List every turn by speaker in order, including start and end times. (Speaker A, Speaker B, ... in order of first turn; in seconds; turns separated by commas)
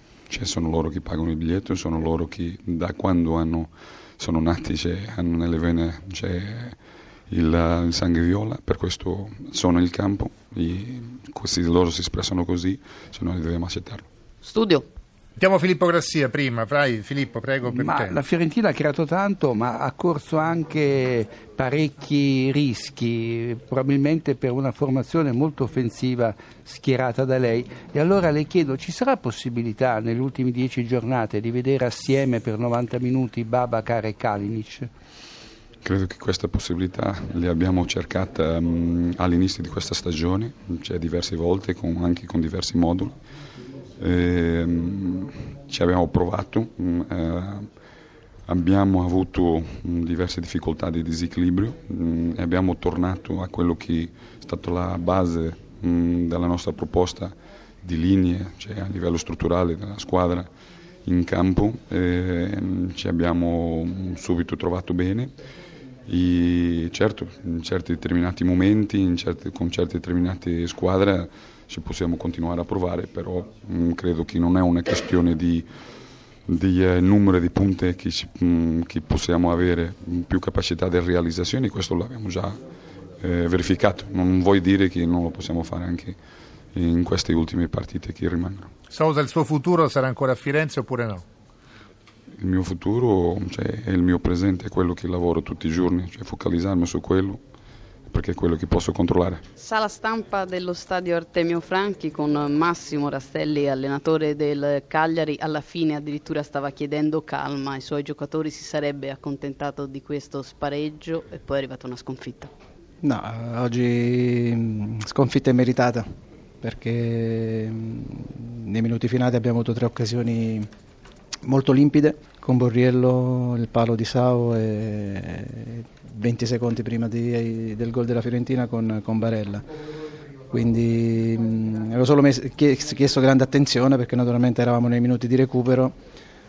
Speaker A: 0.3-6.8, Speaker A: 7.3-14.1, Speaker B: 14.4-14.9, Speaker C: 15.4-18.2, Speaker D: 17.7-34.9, Speaker A: 35.8-43.1, Speaker A: 44.0-47.7, Speaker A: 48.5-60.5, Speaker A: 61.0-65.3, Speaker A: 66.1-75.7, Speaker A: 76.5-82.6, Speaker A: 83.2-86.2, Speaker A: 86.7-88.7, Speaker C: 88.9-91.2, Speaker A: 92.4-97.4, Speaker A: 98.1-99.4, Speaker B: 99.6-112.5, Speaker E: 113.0-116.0, Speaker E: 116.6-120.7, Speaker E: 121.5-129.7, Speaker E: 130.5-136.0